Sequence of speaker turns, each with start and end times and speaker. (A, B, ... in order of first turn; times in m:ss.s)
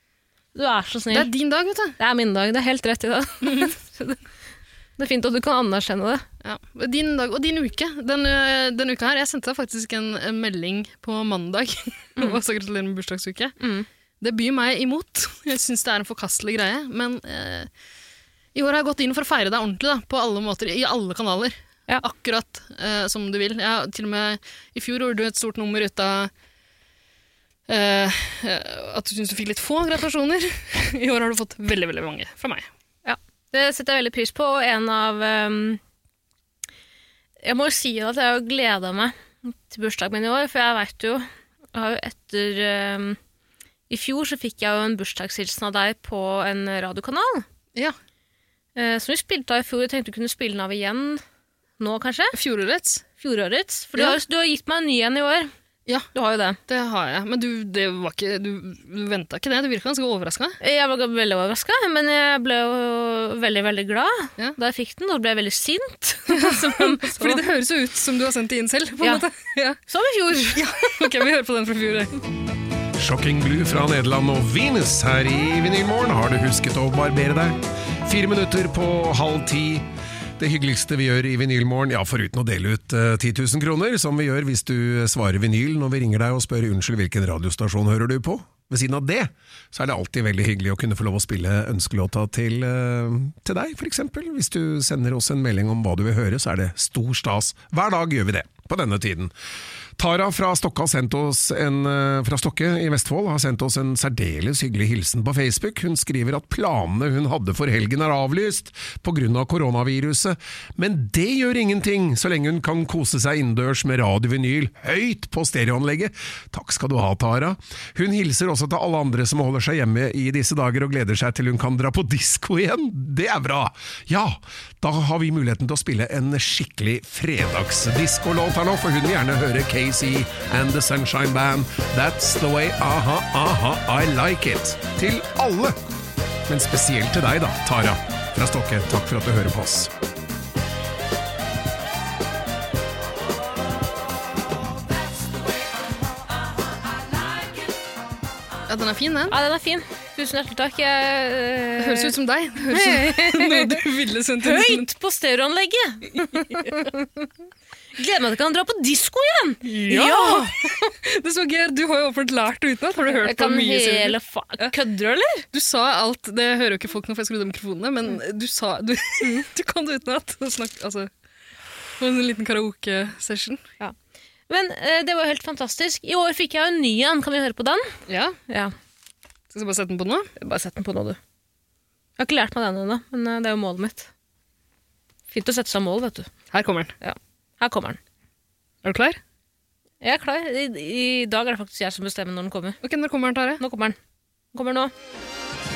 0:00.5-0:01.3 A
0:01.1-0:02.0 B
0:02.0-0:04.2 A
0:03.4-0:03.7 B
0:05.0-0:06.2 A
0:06.4-0:13.6 B
0:13.6-0:13.9 A
0:14.2-0:17.7 B
0:18.5-0:26.3 B
0:27.7-0:32.6 B
0:33.0-0:35.8 A
0:37.4-0:43.2 A
0:43.9-0:47.4 A
0:48.8-0:51.2 A
0:51.8-0:52.3 A
0:52.3-0:53.0 B
0:53.2-0:55.5 A
0:56.1-0:56.6 A
0:56.7-1:00.6 B
1:00.6-1:07.4 A
1:06.3-1:09.8 B
1:09.0-1:09.2 A
1:09.9-1:10.9 A
1:10.6-1:12.1 B
1:13.0-1:19.8 C
1:20.4-1:39.3 C
1:40.0-2:15.8 C
2:16.5-2:19.9 C
2:28.7-2:29.4 B
2:29.3-2:32.1 A
2:31.8-2:34.9 B
2:32.7-2:33.8 A
2:34.4-2:37.3 A
2:36.4-2:36.6 B
2:38.0-2:40.6 A
2:39.6-2:44.8 B
2:43.2-2:45.4 A
2:45.5-2:51.1 B
2:52.0-2:53.6 B
2:54.5-2:57.9 A
2:58.1-2:58.4 B
2:58.5-2:58.7 A
2:59.5-3:00.3 B
3:00.4-3:01.2 A
3:02.2-3:04.1 A
3:05.3-3:06.3 A
3:06.5-3:06.9 B
3:07.0-3:08.0 A
3:08.8-3:09.2 B
3:10.0-3:12.8 A
3:12.8-3:13.6 B
3:13.6-3:14.0 A
3:14.5-3:14.9 A